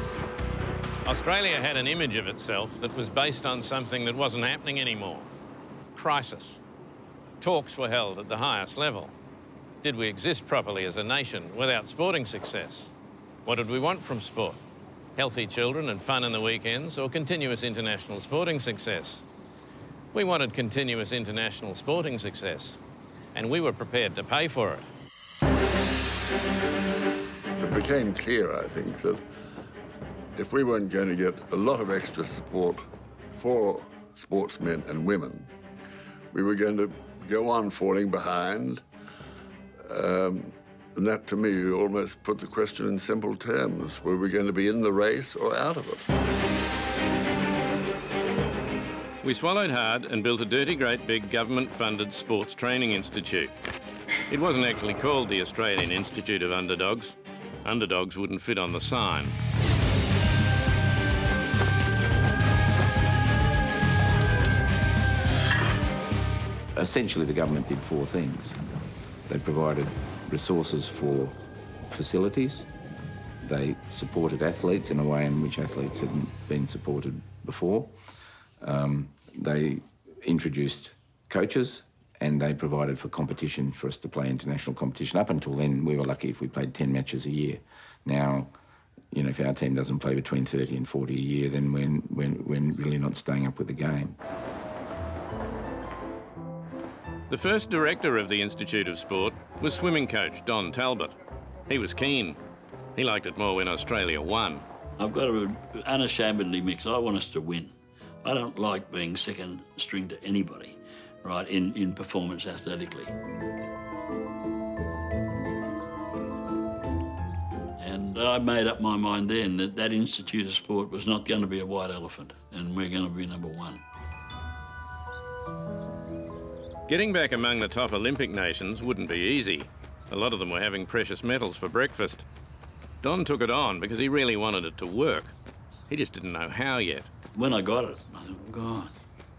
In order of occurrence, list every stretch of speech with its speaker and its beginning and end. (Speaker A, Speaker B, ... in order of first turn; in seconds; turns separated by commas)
Speaker A: 1.0-5.3, Speaker A: 5.9-6.6, Speaker A: 7.4-9.1, Speaker A: 9.8-12.9, Speaker A: 13.4-14.6, Speaker A: 15.2-19.2, Speaker A: 20.1-22.8, Speaker A: 23.3-24.9, Speaker B: 27.6-29.2, Speaker B: 30.4-32.8, Speaker B: 33.4-35.5, Speaker B: 36.3-38.8, Speaker B: 39.9-46.1, Speaker A: 49.2-53.5, Speaker A: 54.3-59.4, Speaker C: 66.7-68.6, Speaker C: 69.3-71.4, Speaker C: 71.9-72.7, Speaker C: 73.4-77.9, Speaker C: 78.6-88.5, Speaker C: 89.1-94.2, Speaker A: 97.3-101.2, Speaker A: 101.7-102.4, Speaker A: 103.0-104.6, Speaker D: 105.0-113.1, Speaker D: 117.8-123.8, Speaker A: 126.9-132.2, Speaker A: 133.0-135.3, Speaker A: 135.9-137.1, Speaker D: 137.3-138.9